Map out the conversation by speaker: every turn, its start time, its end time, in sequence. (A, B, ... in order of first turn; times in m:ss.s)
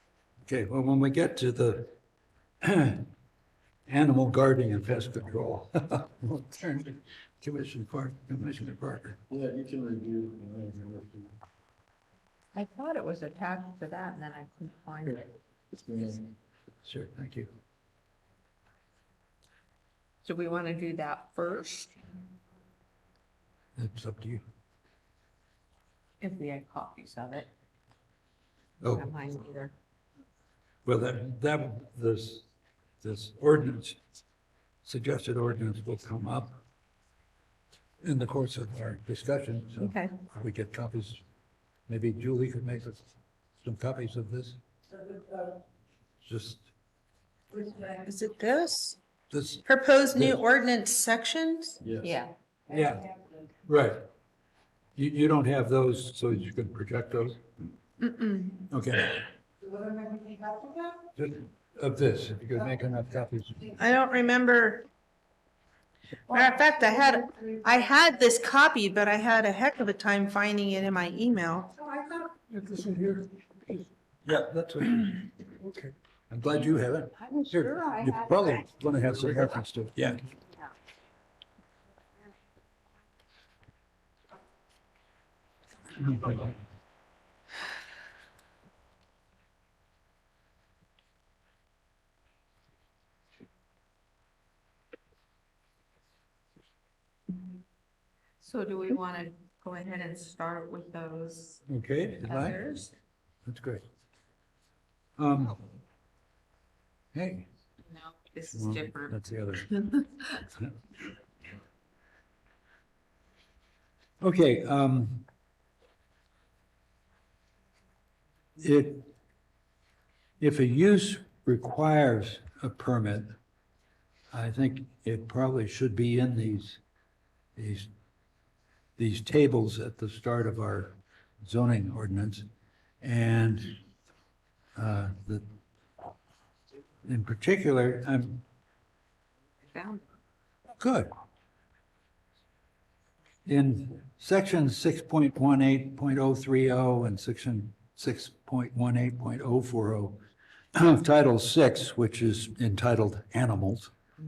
0:00.5-0:01.9 A
0:02.6-0:03.1 A
0:03.9-0:09.2 A
0:09.3-0:11.3 B
0:12.5-0:15.3 C
0:15.7-0:16.3 B
0:16.8-0:17.5 A
0:20.2-0:22.0 C
0:23.8-0:24.4 A
0:26.2-0:27.5 C
0:28.8-0:29.1 A
0:28.9-0:29.7 C
0:30.9-0:32.5 A
0:33.0-0:34.0 A
0:34.8-0:36.6 A
0:38.0-0:41.2 A
0:39.8-0:40.1 C
0:41.9-0:43.0 A
0:43.6-0:44.6 A
0:46.2-0:46.7 A
0:47.9-0:49.0 D
0:49.3-0:49.6 A
0:49.6-0:51.8 D
0:51.8-0:52.1 B
0:52.0-0:52.3 C
0:52.7-0:53.0 A
0:53.7-0:54.0 A
0:55.0-0:57.4 A
0:58.0-0:58.7 D
0:58.7-0:59.2 A
1:01.2-1:03.7 A
1:03.8-1:04.8 D
1:06.3-1:11.8 D
1:12.5-1:13.3 A
1:14.2-1:15.3 A
1:16.3-1:20.2 A
1:17.3-1:18.4 C
1:38.4-1:41.6 C
1:41.7-1:42.6 A
1:42.2-1:42.9 C
1:43.5-1:43.8 A
1:45.2-1:45.6 A
1:47.1-1:47.5 A
1:47.9-1:49.2 C
1:48.5-1:49.8 A
1:49.8-1:50.1 C
1:54.2-1:55.2 A
1:58.6-1:59.1 A
2:00.4-2:03.3 A
2:04.3-2:06.8 A
2:07.6-2:07.9 A
2:09.0-2:12.5 A
2:13.0-2:13.8 A
2:14.8-2:15.4 A
2:17.0-2:18.4 A
2:19.7-2:20.0 C
2:20.8-2:21.1 A
2:23.5-2:30.2 A
2:30.8-2:33.9 A